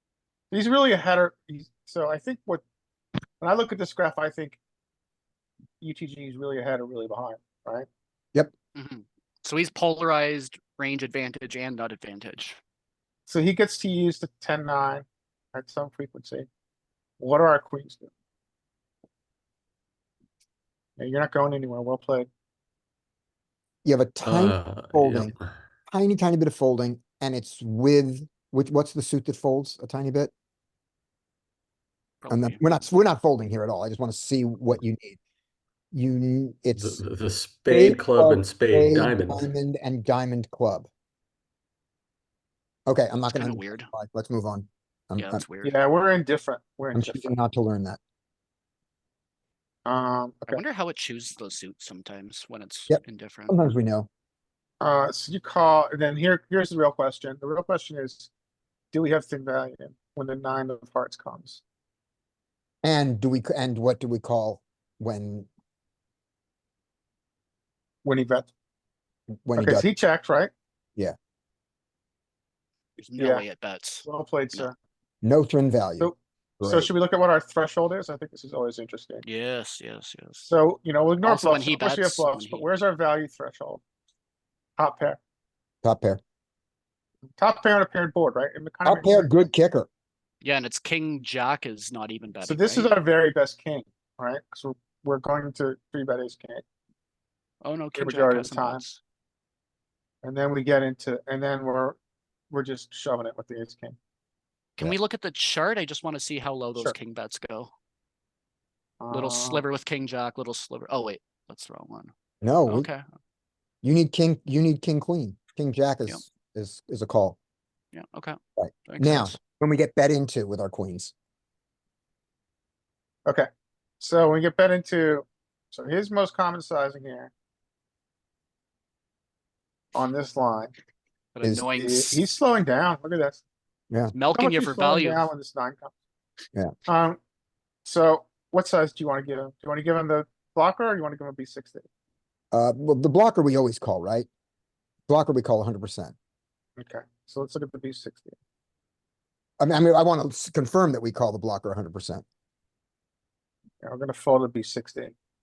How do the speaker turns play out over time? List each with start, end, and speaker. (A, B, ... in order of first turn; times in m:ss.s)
0:00.5-0:02.6 A
0:03.4-0:04.6 A
0:05.8-0:07.9 A
0:08.8-0:12.6 B
0:13.3-0:16.5 A
0:17.2-0:18.1 A
0:21.0-0:22.3 A
0:23.8-0:25.3 C
0:24.2-0:25.5 D
0:25.9-0:30.3 C
0:32.2-0:32.6 B
0:32.3-0:35.2 C
0:35.9-0:37.0 C
0:36.8-0:39.5 D
0:37.7-0:40.9 C
0:42.9-0:45.4 C
0:43.3-0:43.9 B
0:45.2-0:45.8 B
0:45.6-0:47.3 A
0:47.0-0:48.0 C
0:49.9-0:50.6 A
0:50.5-0:53.6 B
0:52.9-0:54.1 C
0:54.8-0:58.3 A
0:58.9-1:01.6 A
1:02.8-1:05.5 C
1:08.0-1:08.5 A
1:09.3-1:09.9 C
1:09.6-1:10.5 A
1:13.0-1:14.7 B
1:13.2-1:13.5 A
1:14.1-1:14.8 A
1:15.2-1:16.9 C
1:16.0-1:19.2 A
1:19.2-1:20.5 B
1:20.4-1:23.8 A
1:21.2-1:22.7 B
1:24.8-1:25.2 A
1:25.8-1:26.2 C
1:27.4-1:29.4 A
1:28.8-1:29.9 C
1:30.4-1:32.9 B
1:32.4-1:36.6 A
1:37.6-1:39.0 B
1:38.0-1:38.8 A
1:40.2-1:42.0 A
1:42.5-1:44.0 A
1:44.8-1:47.7 B
1:49.0-1:49.6 A
1:49.1-1:52.1 B
1:52.4-1:52.9 C
1:52.7-1:53.0 B
1:53.8-1:57.4 C
1:57.9-1:59.4 B
1:58.6-2:01.1 C
2:04.0-2:07.3 A
2:09.9-2:10.7 A
2:11.3-2:12.2 B
2:11.4-2:12.0 C
2:11.8-2:13.4 A
2:14.1-2:15.3 B
2:14.3-2:15.9 A
2:16.9-2:17.2 A
2:17.8-2:21.8 A
2:22.5-2:24.3 C
2:25.1-2:26.2 C
2:26.8-2:28.4 A
2:29.6-2:32.2 C
2:33.8-2:35.1 A